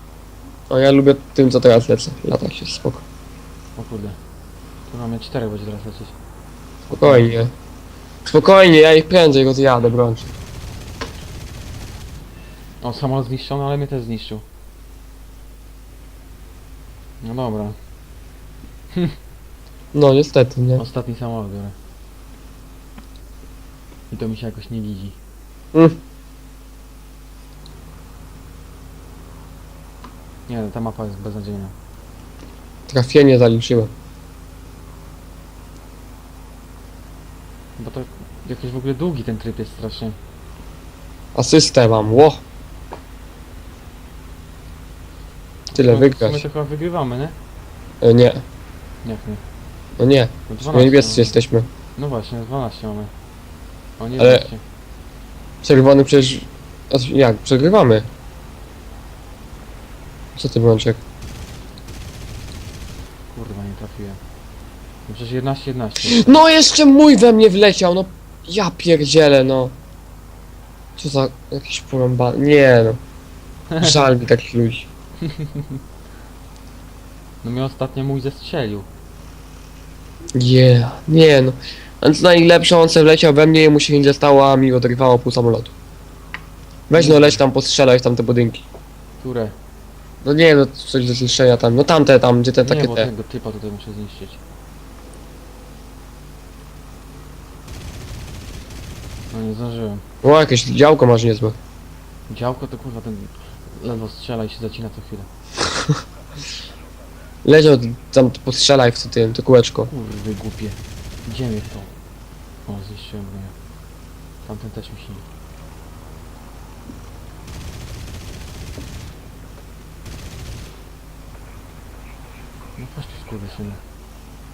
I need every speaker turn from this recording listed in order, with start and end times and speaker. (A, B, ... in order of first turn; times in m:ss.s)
0:00.7-0:03.0 A
0:03.8-0:04.2 B
0:04.9-0:06.1 B
0:06.9-0:07.5 A
0:07.0-0:07.3 B
0:08.2-0:10.3 A
0:12.8-0:14.4 B
0:17.2-0:17.8 B
0:19.9-0:20.8 A
0:20.8-0:21.7 B
0:24.1-0:25.2 B
0:30.5-0:31.7 B
0:32.9-0:33.9 A
0:37.8-0:40.2 B
0:41.3-0:42.4 A
0:45.7-0:47.4 B
0:45.7-0:46.4 A
0:48.0-0:48.4 A
0:49.0-0:49.4 B
0:50.0-0:51.7 A
0:50.5-0:51.4 B
0:52.0-0:53.1 B
0:54.0-0:54.6 B
0:54.2-0:54.4 A
0:55.6-0:58.1 A
1:00.3-1:01.0 A
1:03.3-1:04.2 B
1:05.1-1:06.4 B
1:06.1-1:09.7 A
1:11.0-1:13.0 A
1:13.7-1:14.0 B
1:13.8-1:14.9 A
1:15.2-1:15.8 B
1:17.4-1:18.9 B
1:20.4-1:25.7 A
1:26.9-1:28.6 A
1:26.9-1:27.4 B
1:29.2-1:29.6 B
1:30.2-1:33.1 A
1:32.6-1:34.4 B
1:39.3-1:40.0 B
1:40.2-1:41.6 A
1:42.3-1:45.3 B
1:47.4-1:49.9 A
1:49.9-1:52.0 B
1:52.6-1:53.5 B
1:54.4-1:55.2 B
2:02.8-2:03.8 B